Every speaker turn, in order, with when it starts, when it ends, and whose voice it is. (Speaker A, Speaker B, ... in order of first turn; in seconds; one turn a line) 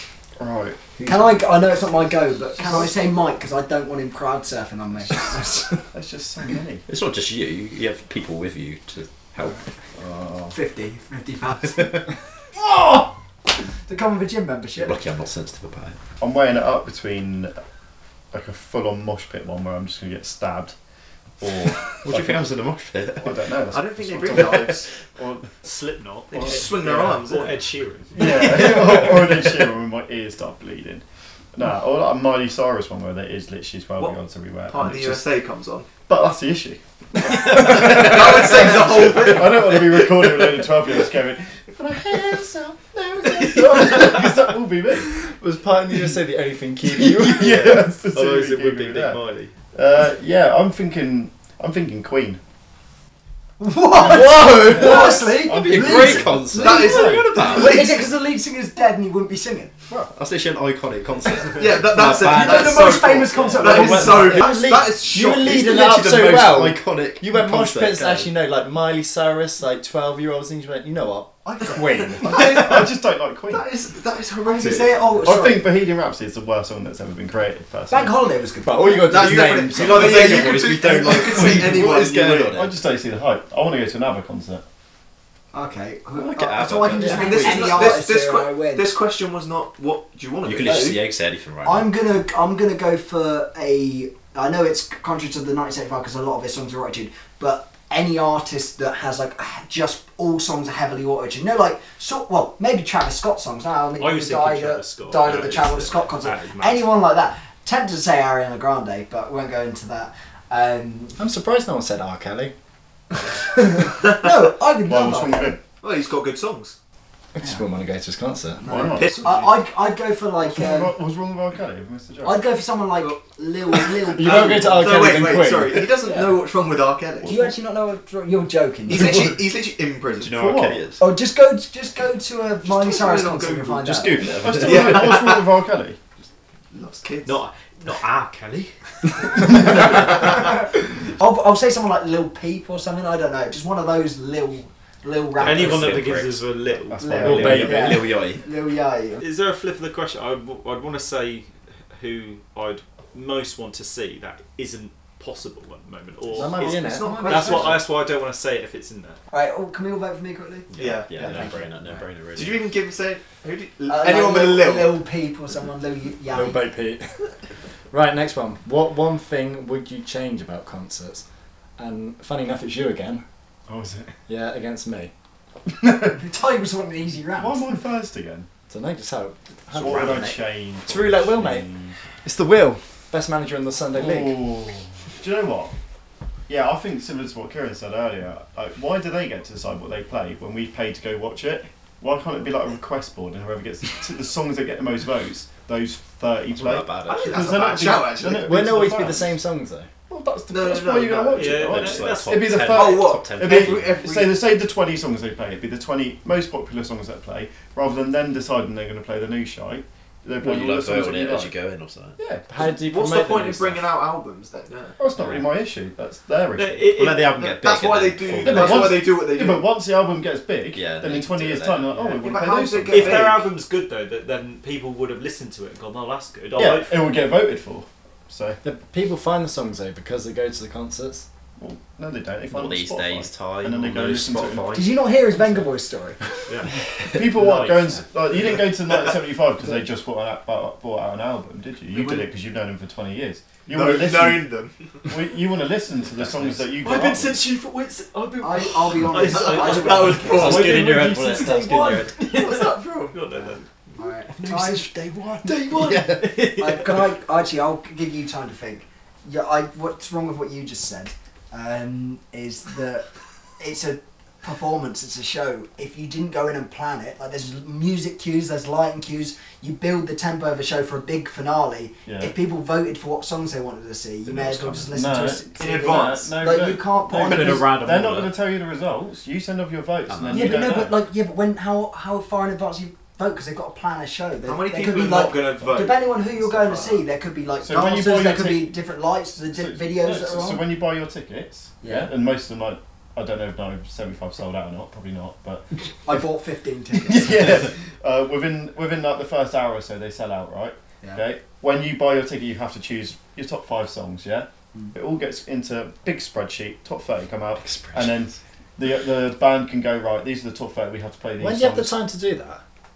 Speaker A: 0.4-0.9
Speaker B: 1.0-1.6
Speaker C: 1.1-5.8
Speaker A: 2.6-2.9
Speaker A: 5.9-6.9
Speaker D: 6.9-9.6
Speaker A: 10.0-10.6
Speaker C: 10.5-13.1
Speaker C: 13.8-15.0
Speaker D: 14.8-16.0
Speaker A: 16.2-17.6
Speaker A: 18.3-20.8
Speaker A: 21.4-22.5
Speaker D: 21.9-23.4
Speaker A: 23.2-25.5
Speaker E: 23.7-24.9
Speaker F: 25.6-28.8
Speaker E: 26.3-27.6
Speaker A: 26.3-27.2
Speaker A: 28.1-35.3
Speaker E: 34.0-35.9
Speaker A: 36.1-45.2
Speaker E: 37.5-40.2
Speaker B: 45.2-47.9
Speaker A: 46.9-49.2
Speaker F: 47.4-49.5
Speaker A: 49.7-52.4
Speaker C: 53.6-59.8
Speaker A: 54.0-57.5
Speaker B: 54.0-55.2
Speaker D: 54.8-57.9
Speaker E: 56.6-58.0
Speaker A: 59.9-60.1
Speaker D: 60.1-64.5
Speaker E: 61.4-66.6
Speaker C: 62.2-64.6
Speaker B: 64.0-72.6
Speaker D: 65.7-68.3
Speaker C: 71.5-71.8
Speaker A: 72.2-73.7
Speaker E: 72.2-72.9
Speaker E: 73.5-75.2
Speaker C: 74.4-75.7
Speaker A: 75.2-78.2
Speaker C: 77.9-79.6
Speaker B: 78.6-80.9
Speaker E: 78.9-82.6
Speaker D: 79.8-82.7
Speaker A: 82.5-84.6
Speaker C: 85.5-88.9
Speaker D: 86.1-88.0
Speaker E: 87.0-91.1
Speaker D: 90.4-91.9
Speaker C: 90.7-91.0
Speaker C: 91.6-111.2
Speaker F: 104.0-106.9
Speaker B: 111.2-112.5
Speaker C: 113.4-115.6
Speaker A: 114.8-115.6
Speaker E: 115.8-116.8
Speaker B: 117.3-118.7
Speaker C: 118.6-121.0
Speaker A: 118.6-119.2
Speaker E: 118.8-119.6
Speaker A: 120.4-122.5
Speaker C: 122.2-124.8
Speaker E: 123.7-127.5
Speaker B: 124.1-125.9
Speaker C: 127.2-129.3
Speaker E: 128.9-130.4
Speaker A: 128.9-129.3
Speaker D: 130.2-131.0
Speaker A: 130.3-130.9
Speaker C: 131.0-134.2
Speaker E: 132.6-135.6
Speaker D: 133.8-135.2
Speaker A: 134.3-136.0
Speaker E: 136.7-137.4
Speaker F: 137.2-138.7
Speaker C: 139.4-146.1
Speaker D: 145.4-146.5
Speaker F: 145.4-147.5
Speaker A: 146.9-147.9
Speaker C: 147.0-149.2
Speaker D: 147.1-148.5
Speaker B: 147.2-148.0
Speaker F: 149.2-159.2
Speaker B: 156.3-157.4
Speaker E: 156.4-157.8
Speaker C: 156.8-157.7
Speaker C: 159.3-161.6
Speaker D: 160.7-162.7
Speaker E: 160.7-165.0
Speaker C: 163.9-166.6
Speaker B: 166.3-167.2
Speaker B: 167.9-171.2
Speaker B: 171.8-173.2
Speaker A: 173.7-174.1
Speaker B: 174.3-175.1
Speaker C: 176.1-177.8
Speaker A: 177.4-178.5
Speaker B: 178.7-181.7
Speaker D: 179.8-180.4
Speaker A: 179.8-182.0
Speaker B: 182.2-184.4
Speaker A: 183.9-185.7
Speaker A: 186.5-199.4
Speaker D: 196.5-197.5
Speaker E: 197.0-198.8
Speaker B: 198.4-199.9
Speaker A: 200.1-211.5
Speaker E: 200.5-201.7
Speaker F: 201.3-202.5
Speaker D: 201.6-204.0
Speaker E: 202.6-204.5
Speaker D: 210.4-212.2
Speaker A: 212.2-212.6
Speaker B: 212.5-213.9
Speaker E: 212.7-215.0
Speaker A: 215.0-217.0
Speaker D: 215.2-215.4
Speaker F: 216.6-217.3
Speaker D: 216.9-219.1
Speaker E: 217.3-219.7
Speaker A: 218.4-223.3
Speaker D: 220.7-222.1
Speaker E: 222.0-223.5
Speaker F: 222.9-227.1
Speaker A: 226.6-228.6
Speaker B: 228.6-231.3
Speaker A: 231.6-234.9
Speaker D: 232.5-234.9
Speaker C: 234.7-236.2
Speaker A: 237.1-244.6
Speaker F: 237.3-238.0
Speaker E: 241.9-242.3
Speaker E: 243.7-244.9
Speaker A: 245.1-247.5
Speaker D: 246.1-246.7
Speaker F: 246.8-253.7
Speaker C: 248.4-250.8
Speaker E: 248.9-253.6
Speaker D: 250.2-252.4
Speaker C: 254.0-263.1
Speaker F: 254.5-254.8
Speaker F: 255.4-256.7
Speaker D: 255.7-256.9
Speaker C: 263.6-277.7
Speaker A: 272.1-272.3
Speaker D: 274.3-274.9
Speaker A: 274.8-281.0
Speaker E: 275.6-276.4
Speaker D: 277.1-278.4
Speaker D: 280.1-280.6
Speaker C: 280.3-290.7
Speaker E: 284.4-287.1
Speaker A: 287.6-288.8
Speaker A: 289.5-295.6
Speaker C: 291.8-292.1
Speaker C: 296.1-297.7
Speaker A: 297.0-311.9
Speaker D: 307.6-308.3
Speaker B: 311.4-312.6